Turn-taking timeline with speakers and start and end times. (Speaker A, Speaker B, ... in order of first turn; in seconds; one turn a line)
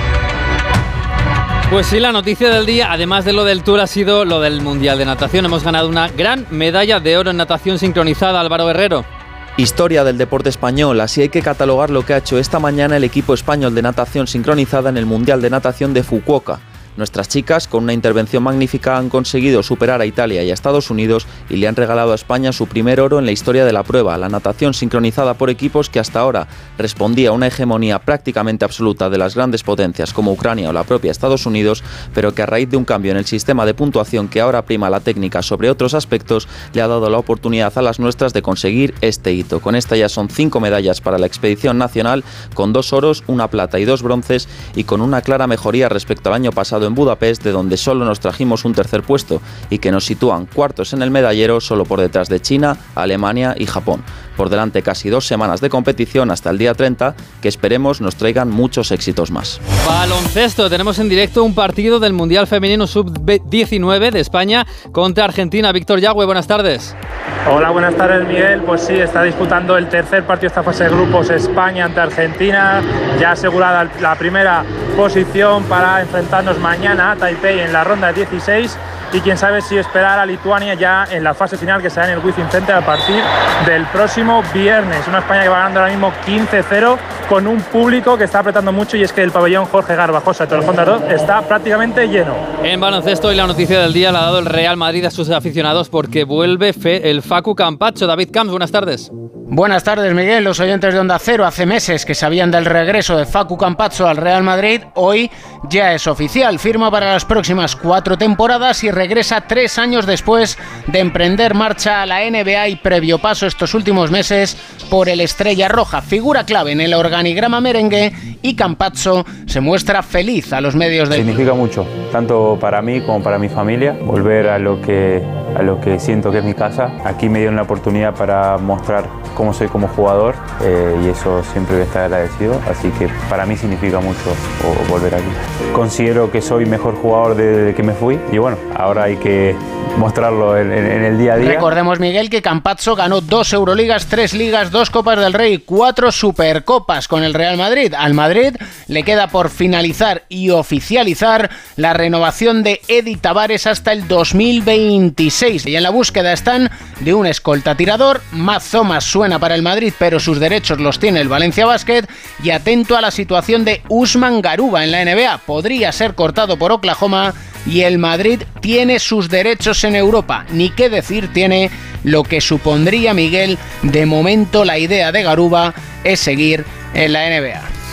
Speaker A: 1.7-9.0
Speaker B: 9.6-59.6
Speaker A: 59.8-66.9
Speaker C: 67.5-92.4
Speaker A: 92.6-99.1
Speaker D: 99.5-121.4
Speaker E: 121.2-141.7
Speaker D: 141.4-177.7